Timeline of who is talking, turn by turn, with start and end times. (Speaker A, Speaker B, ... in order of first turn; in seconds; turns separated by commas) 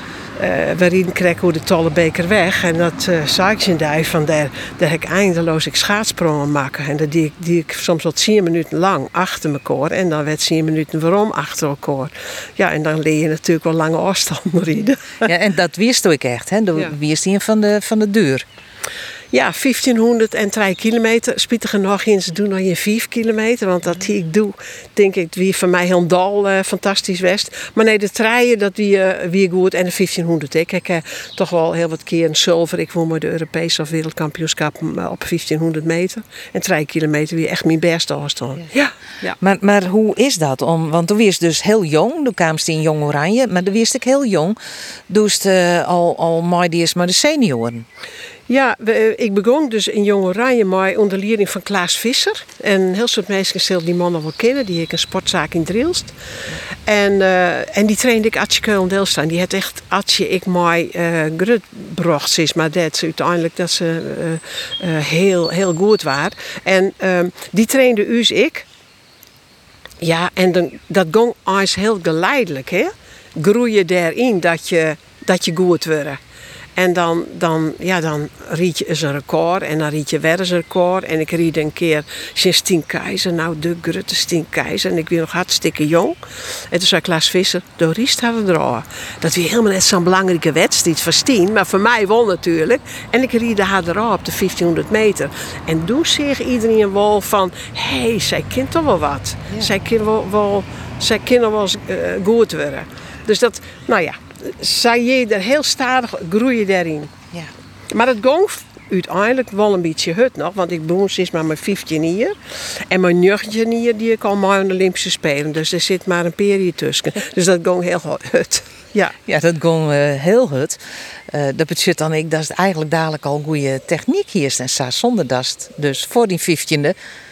Speaker A: 0.4-15.3, Speaker B: 15.2-18.5, Speaker A: 19.3-39.4, Speaker B: 39.4-44.6, Speaker B: 45.1-47.9, Speaker A: 48.5-56.1, Speaker A: 56.9-68.7, Speaker A: 70.0-76.2, Speaker A: 76.8-86.2, Speaker A: 86.7-107.1, Speaker A: 107.9-119.2, Speaker B: 119.3-127.0